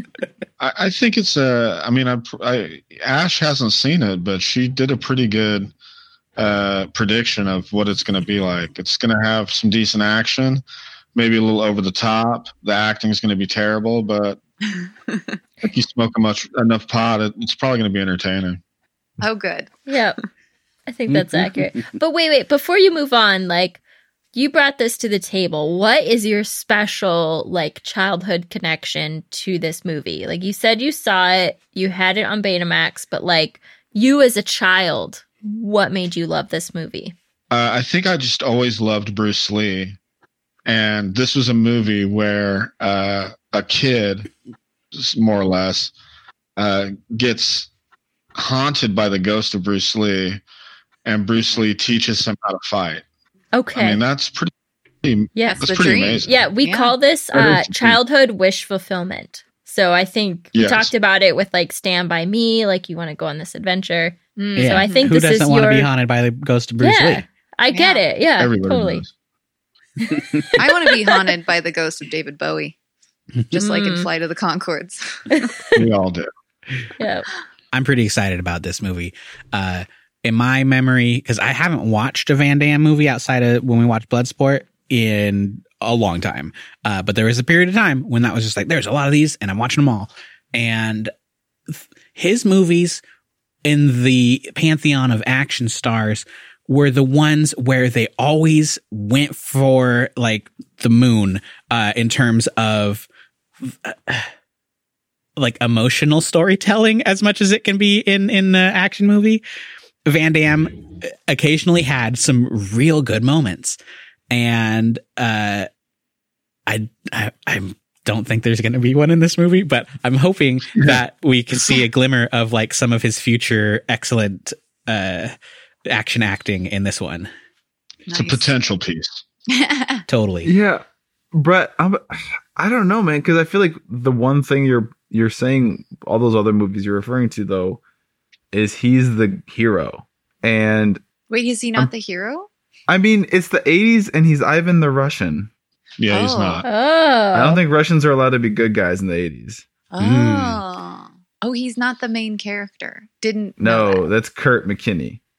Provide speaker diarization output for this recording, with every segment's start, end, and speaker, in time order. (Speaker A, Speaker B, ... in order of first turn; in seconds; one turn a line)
Speaker A: 0.6-5.7
Speaker A: 6.4-10.6
Speaker A: 11.1-14.4
Speaker B: 15.1-15.4
Speaker A: 15.6-18.6
Speaker B: 19.2-19.7
Speaker C: 19.9-20.2
Speaker C: 20.9-23.8
Speaker D: 21.1-21.6
Speaker C: 24.3-37.1
Speaker A: 37.5-40.0
Speaker A: 40.7-44.3
Speaker A: 45.0-45.9
Speaker A: 46.6-47.7
Speaker A: 48.4-50.4
Speaker A: 51.0-53.0
Speaker C: 53.5-54.0
Speaker A: 53.8-54.5
Speaker A: 55.0-56.4
Speaker C: 55.4-55.6
Speaker B: 55.5-56.9
Speaker C: 56.2-65.9
Speaker A: 57.3-58.0
Speaker A: 60.5-60.9
Speaker B: 64.5-65.1
Speaker D: 64.6-67.2
Speaker C: 66.8-69.0
Speaker B: 67.7-68.0
Speaker A: 68.4-69.1
Speaker B: 70.6-72.8
Speaker B: 73.5-75.4
Speaker C: 73.5-74.1
Speaker C: 75.3-75.9
Speaker A: 75.8-76.3
Speaker C: 77.0-77.3
Speaker D: 77.7-91.1
Speaker D: 91.7-93.0
Speaker D: 93.6-103.1
Speaker D: 103.6-104.3
Speaker D: 105.4-109.4
Speaker D: 110.1-113.8
Speaker D: 114.3-115.7
Speaker D: 116.7-125.3
Speaker D: 125.9-127.3
Speaker B: 128.1-128.5
Speaker A: 128.1-129.2
Speaker B: 129.5-130.0
Speaker D: 130.1-130.5
Speaker E: 130.4-137.8
Speaker E: 138.5-141.0
Speaker B: 141.3-142.5
Speaker E: 142.9-145.5
Speaker A: 146.0-146.7
Speaker B: 146.1-146.6
Speaker C: 146.6-147.6
Speaker E: 147.3-149.6
Speaker B: 149.9-154.0
Speaker D: 150.0-150.6
Speaker E: 153.6-155.2